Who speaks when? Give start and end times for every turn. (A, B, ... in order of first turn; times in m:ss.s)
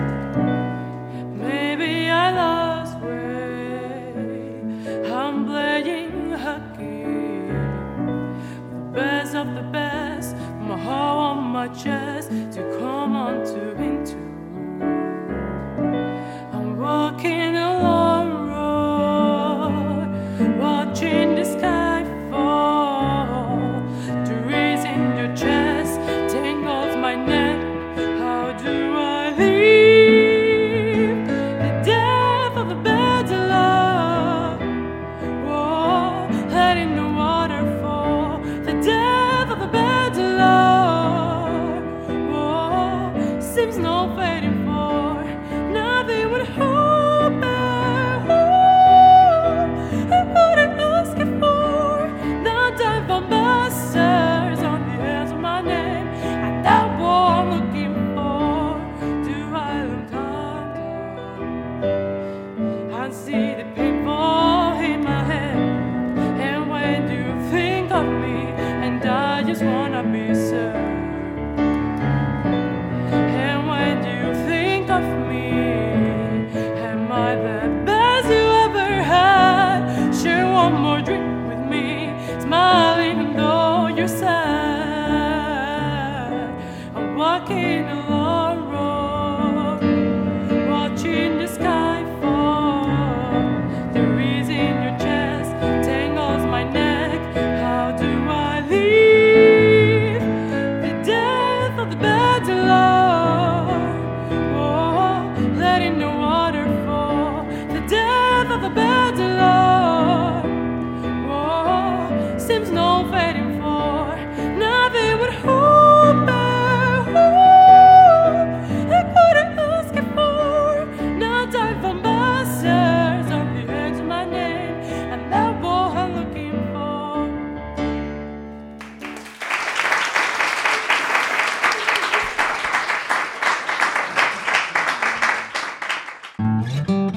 0:01.3-0:07.9 A
0:08.7-0:15.6 A
0:16.5-0:34.7 A
0:35.4-1:01.6 A
1:02.9-1:11.5 A
1:13.3-1:29.9 A
1:30.6-1:40.2 A
1:40.8-1:50.6 A
1:51.2-2:07.4 A